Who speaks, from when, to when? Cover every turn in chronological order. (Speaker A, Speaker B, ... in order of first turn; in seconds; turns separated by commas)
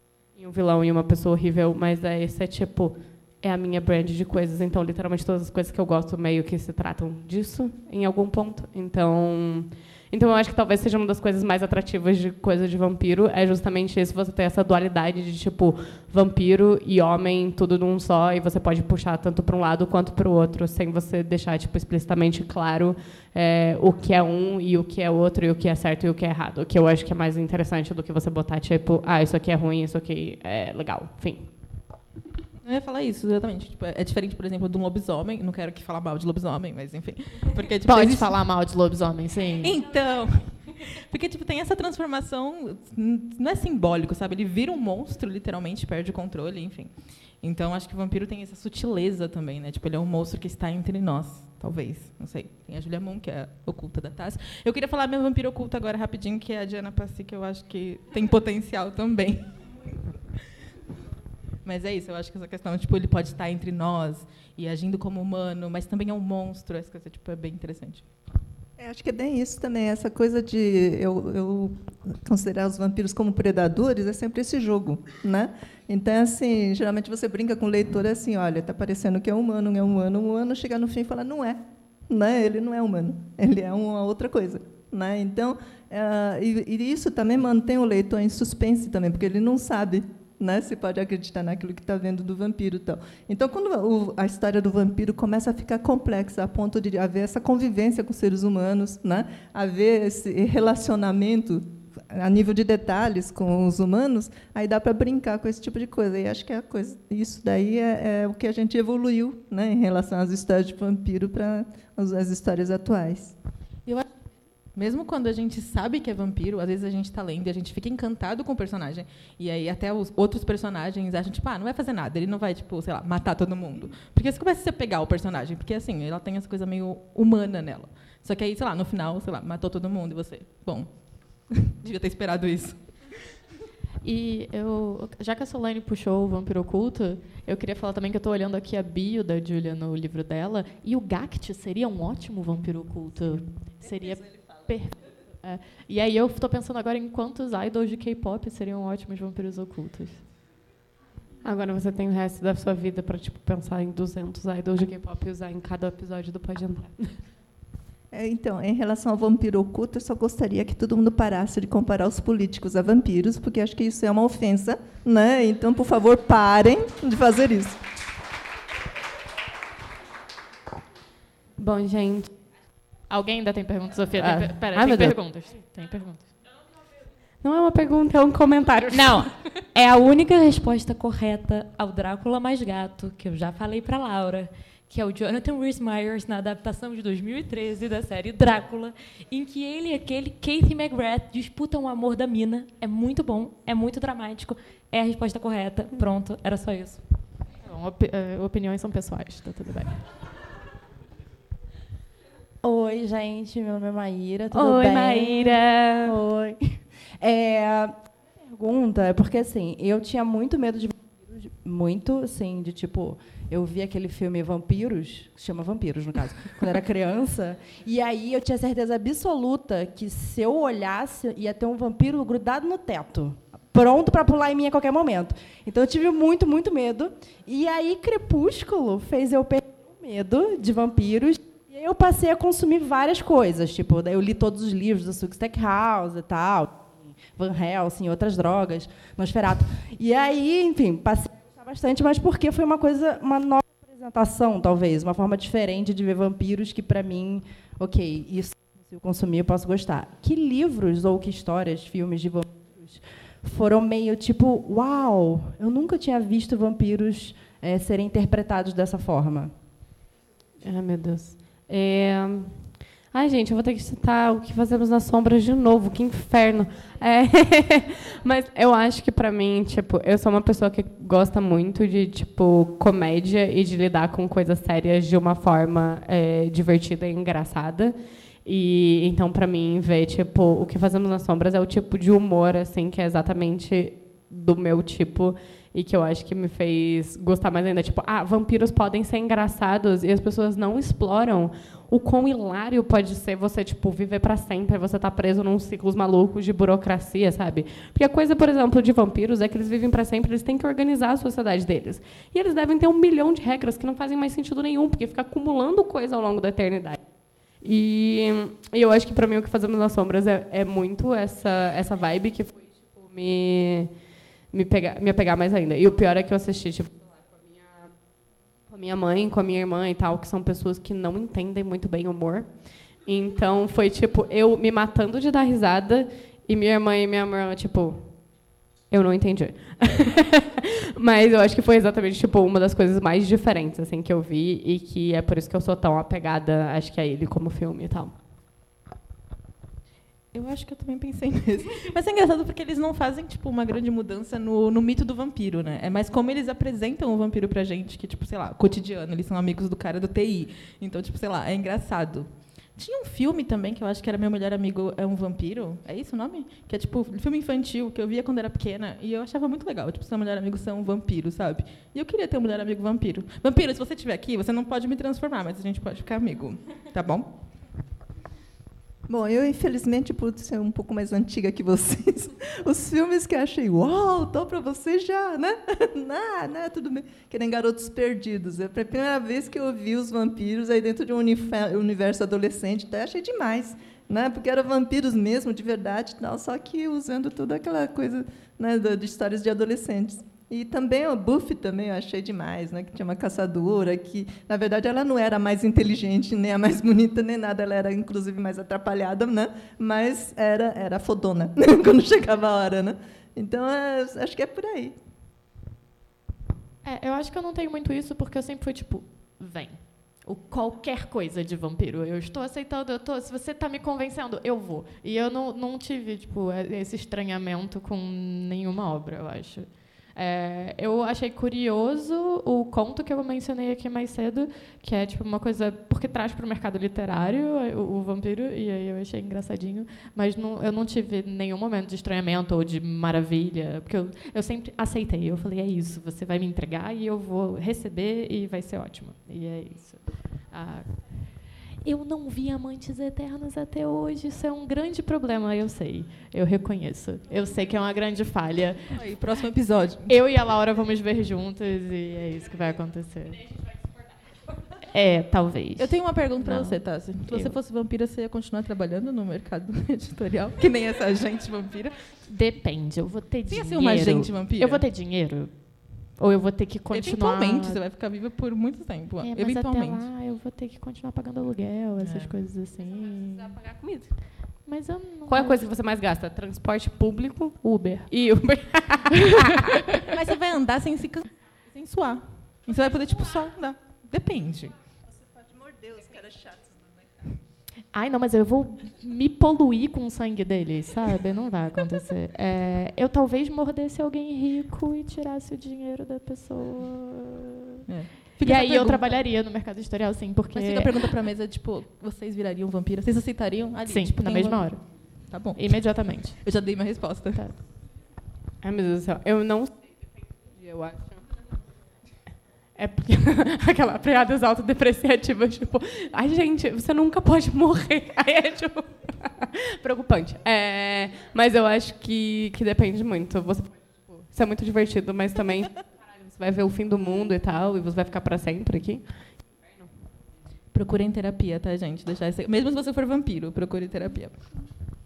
Speaker A: 0.3-31.5, Speaker B: 32.6-38.4, Speaker C: 37.9-39.7, Speaker B: 39.6-59.7, Speaker B: 61.6-68.1, Speaker D: 68.8-113.3, Speaker B: 114.7-133.4, Speaker C: 134.0-150.3, Speaker A: 151.4-157.2, Speaker D: 158.1-167.8, Speaker A: 171.6-172.3, Speaker C: 173.1-176.3, Speaker A: 174.2-175.2, Speaker A: 177.4-179.4, Speaker E: 178.9-197.0, Speaker C: 197.7-200.0, Speaker F: 202.6-259.6, Speaker A: 204.5-206.1, Speaker A: 260.6-307.0, Speaker A: 307.6-313.9, Speaker A: 314.5-317.9, Speaker A: 318.7-328.2, Speaker A: 328.9-338.1, Speaker B: 340.3-367.4, Speaker D: 369.1-405.0, Speaker C: 406.8-448.9, Speaker B: 448.9-450.1, Speaker C: 450.1-453.5, Speaker C: 454.9-457.6, Speaker B: 455.8-462.0, Speaker C: 462.3-467.8, Speaker B: 463.5-464.9, Speaker B: 466.9-470.1, Speaker C: 469.2-473.6, Speaker A: 472.0-472.3, Speaker A: 473.4-474.5, Speaker C: 474.6-475.6, Speaker A: 475.3-479.7, Speaker C: 477.6-478.1, Speaker B: 480.1-484.8, Speaker D: 485.4-486.6, Speaker C: 487.9-497.8, Speaker B: 497.9-499.2, Speaker C: 498.4-501.0, Speaker B: 500.5-507.4, Speaker C: 503.9-506.5, Speaker A: 508.6-511.2, Speaker A: 512.8-529.5, Speaker B: 530.7-534.4